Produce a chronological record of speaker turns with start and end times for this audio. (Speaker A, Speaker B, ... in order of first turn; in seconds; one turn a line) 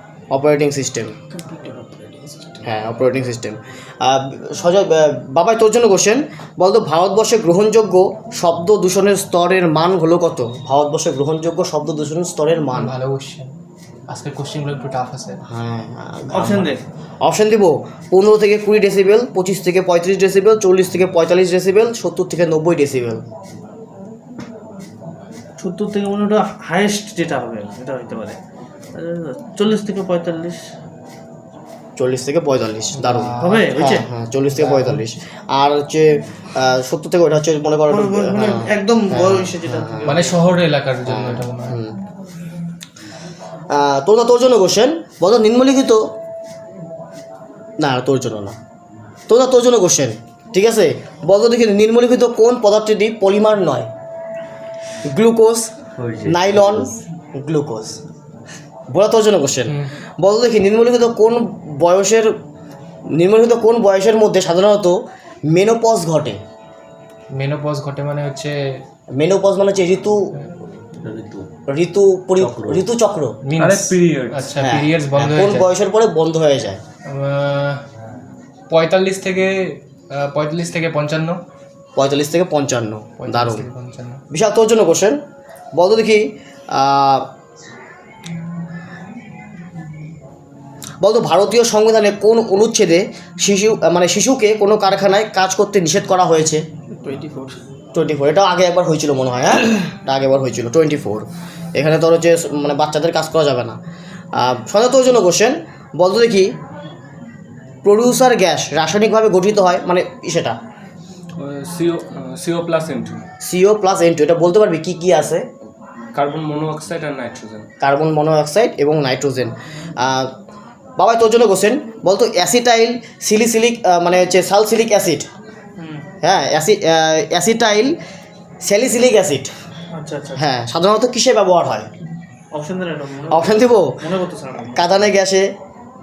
Speaker A: 0.3-1.1
Speaker B: 1.3-2.7
Speaker A: 2.6-12.9
Speaker C: 12.7-13.5
Speaker C: 14.1-15.4
Speaker A: 15.5-23.2
Speaker D: 16.3-16.8
Speaker D: 25.6-28.4
Speaker D: 28.9-30.6
Speaker A: 32.0-40.2
Speaker C: 33.0-33.7
Speaker D: 33.4-34.0
Speaker C: 34.6-35.0
Speaker D: 37.9-40.4
Speaker C: 40.0-41.8
Speaker A: 41.1-41.9
Speaker A: 43.7-46.0
Speaker A: 47.8-48.6
Speaker A: 49.3-53.9
Speaker A: 55.1-55.7
Speaker E: 56.0-57.0
Speaker A: 56.2-58.0
Speaker A: 58.9-62.3
Speaker C: 59.7-59.9
Speaker A: 63.1-65.0
Speaker A: 65.5-66.4
Speaker C: 67.4-68.8
Speaker A: 69.2-70.2
Speaker E: 71.0-71.5
Speaker A: 71.7-73.4
Speaker E: 72.4-72.9
Speaker C: 73.4-75.7
Speaker F: 73.6-74.6
Speaker A: 74.6-76.8
Speaker C: 77.1-77.8
Speaker C: 78.7-81.4
Speaker A: 82.0-83.7
Speaker C: 83.2-84.2
Speaker A: 84.3-85.2
Speaker A: 85.8-87.3
Speaker A: 91.0-96.6
Speaker B: 97.0-97.6
Speaker A: 97.9-101.3
Speaker A: 101.8-103.8
Speaker A: 104.4-106.5
Speaker A: 107.8-110.6
Speaker F: 111.4-113.2
Speaker A: 113.4-115.4
Speaker F: 116.2-117.7
Speaker A: 117.8-120.3
Speaker A: 121.0-125.3
Speaker D: 125.8-126.0
Speaker A: 126.2-127.9
Speaker A: 128.6-129.5
Speaker D: 129.9-130.4
Speaker A: 130.4-131.9
Speaker D: 132.5-134.8
Speaker A: 133.3-134.0
Speaker A: 134.8-135.5